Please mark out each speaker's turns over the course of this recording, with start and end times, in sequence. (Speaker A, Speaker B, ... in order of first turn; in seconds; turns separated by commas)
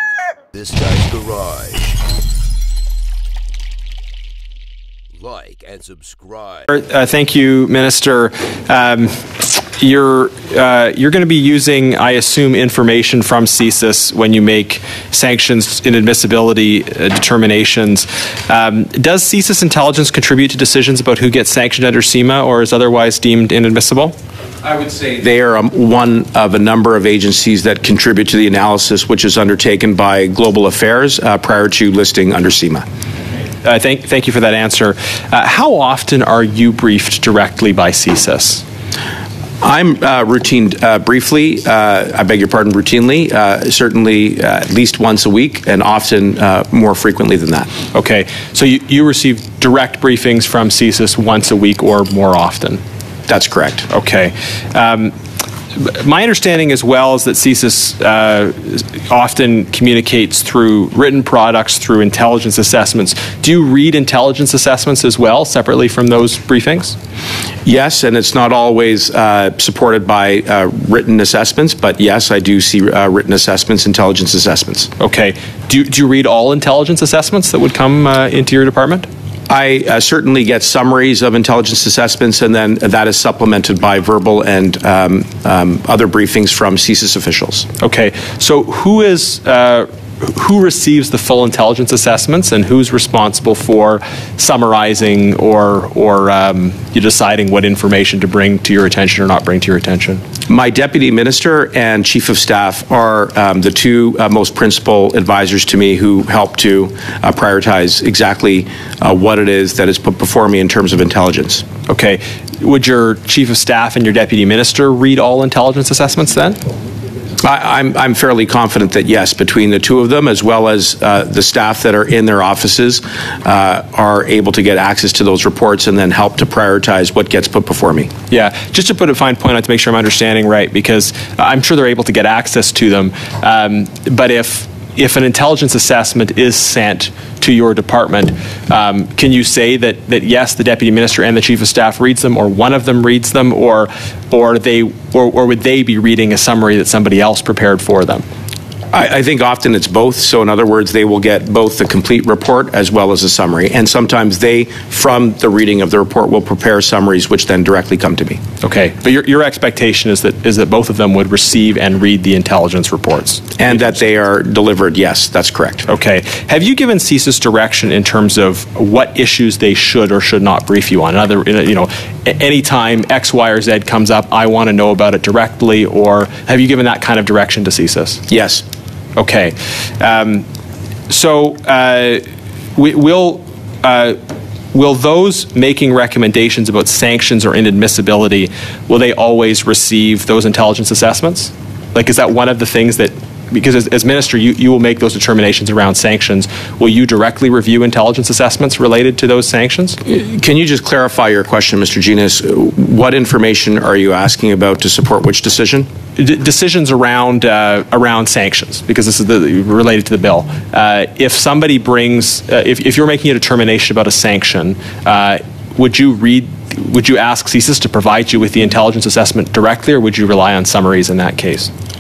Speaker A: 0.6-1.9, Speaker A: 5.2-6.6, Speaker B: 6.7-24.1, Speaker C: 24.6-32.9, Speaker B: 33.6-38.6, Speaker C: 39.6-47.7, Speaker B: 47.9-52.8, Speaker C: 53.3-53.9, Speaker B: 53.9-55.1, Speaker B: 55.7-67.0, Speaker C: 67.7-74.9, Speaker B: 75.0-79.1, Speaker C: 79.5-87.7, Speaker B: 87.8-100.2, Speaker C: 100.5-111.7, Speaker B: 111.9-116.6, Speaker C: 117.4-128.1, Speaker B: 128.3-148.2, Speaker C: 148.9-158.4, Speaker B: 158.6-163.9, Speaker C: 163.6-165.9, Speaker B: 165.9-178.2, Speaker C: 178.3-178.6, Speaker B: 179.2-180.4, Speaker B: 181.1-182.2, Speaker B: 182.8-184.2, Speaker B: 184.7-200.0, Speaker C: 200.0-205.9, Speaker B: 206.2-221.7